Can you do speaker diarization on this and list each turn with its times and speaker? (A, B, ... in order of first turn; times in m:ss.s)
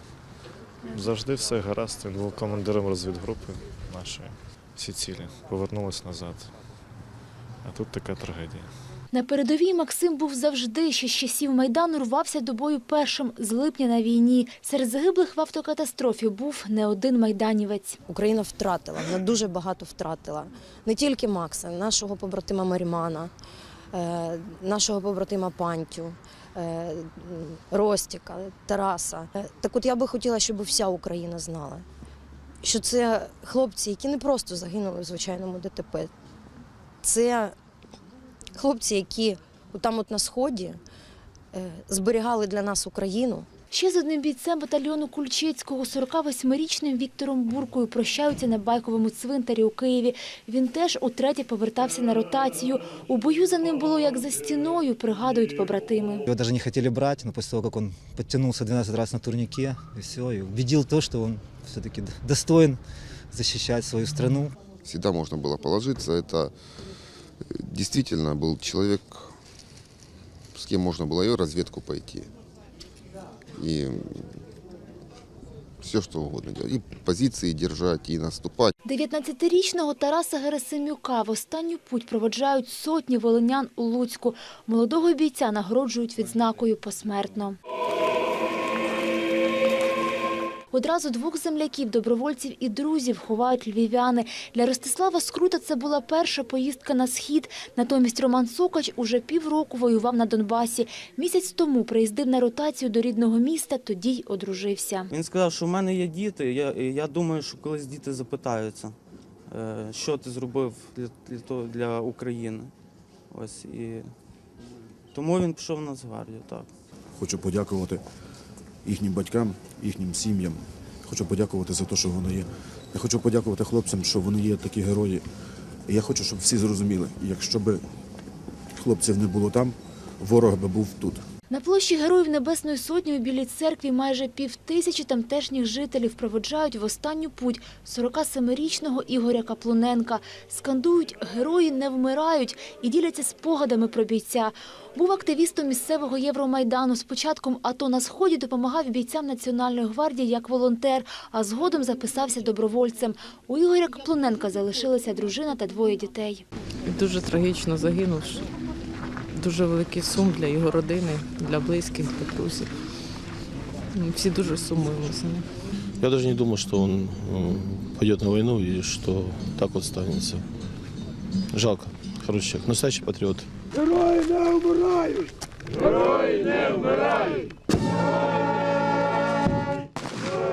0:00.8-0:06.5 A
0:07.6-0:08.7 A
0:09.1-0:18.0 B
0:18.1-0:23.3 C
0:23.9-0:31.8 C
0:32.6-0:36.1 C
0:37.0-0:37.6 C
0:38.6-0:40.8 C
0:41.5-0:43.5 C
0:43.7-0:56.3 B
0:56.3-1:02.8 D
1:03.3-1:04.5 D
1:04.8-1:06.5 E
1:07.5-1:09.3 E
1:10.5-1:12.3 E
1:13.6-1:14.4 E
1:15.8-1:18.7 E
1:18.8-1:27.6 B
1:30.7-1:45.1 B
1:45.1-1:49.0 F
1:49.5-1:52.7 F
1:53.3-1:54.1 F
1:55.1-1:56.7 F
1:57.2-1:58.0 G
1:58.8-2:05.2 G
2:05.9-2:07.8 G
2:08.8-2:11.2 G
2:11.5-2:36.4 B
2:36.8-2:38.5 H
2:39.3-2:42.8 H
2:43.9-2:45.5 H
2:46.0-2:50.5 I
2:51.5-2:53.5 I